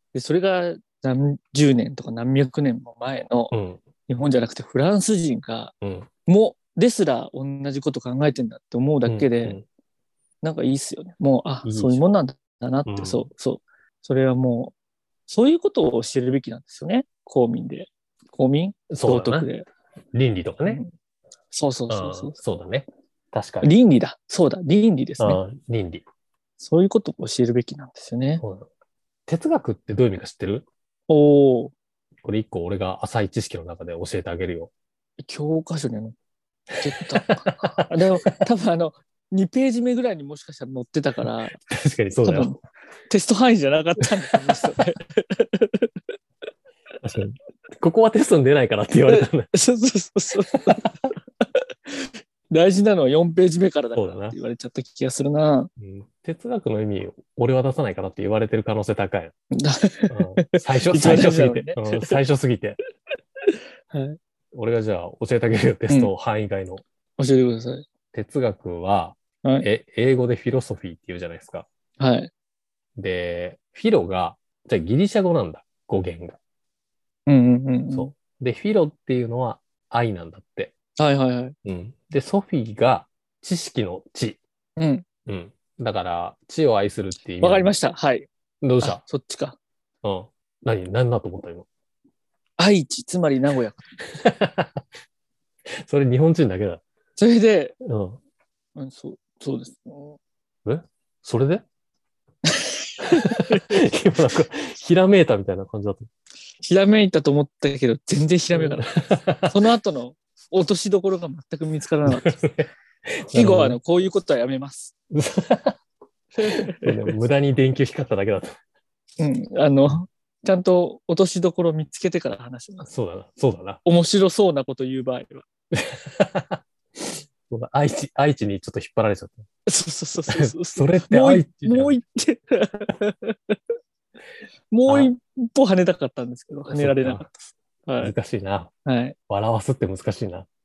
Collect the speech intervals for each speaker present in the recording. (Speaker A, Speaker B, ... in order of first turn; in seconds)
Speaker A: 0.1-3.5, 4.1-5.7, 6.2-9.6, 10.4-14.7, 15.3-19.7, 21.5-22.4, 23.6-25.4, 26.6-28.4, 31.1-31.7, 35.2-36.1, 36.8-41.6, 42.2-45.9, 49.1-55.7, 59.5-62.1, 63.9-64.2, 67.2-67.9, 72.0-72.3, 77.3-78.1, 81.0-81.5, 84.8-85.0, 87.4-88.3, 88.8-89.6, 92.6-93.9, 97.2-97.8, 98.8-100.2, 102.5-103.8, 106.6-112.4, 113.3-114.9, 116.4-117.2, 119.2-122.9, 123.8-125.5, 129.7-133.6, 134.7-138.1, 138.8-139.2
Speaker B: 3.5-3.8, 5.8-6.1, 9.0-9.6, 11.6-12.0, 12.8-13.3, 18.9-19.5, 20.1-20.8, 21.9-23.7, 25.2-26.0, 28.4-28.7, 29.3-30.6, 32.2-34.7, 37.3-38.4, 41.7-42.5, 47.0-49.5, 54.0-54.4, 55.8-59.3, 60.1-62.8, 64.5-66.8, 68.1-71.7, 73.0-76.4, 77.9-80.7, 81.6-84.4, 85.2-87.7, 88.6-89.0, 90.0-91.7, 94.1-94.8, 95.8-96.8, 97.8-98.2, 100.6-101.6, 103.1-106.1, 108.5-109.7, 112.0-113.8, 115.1-115.8, 116.5-118.5, 122.8-123.8, 125.7-129.4, 130.3-132.0, 136.7-137.3, 138.0-138.7, 139.3-140.5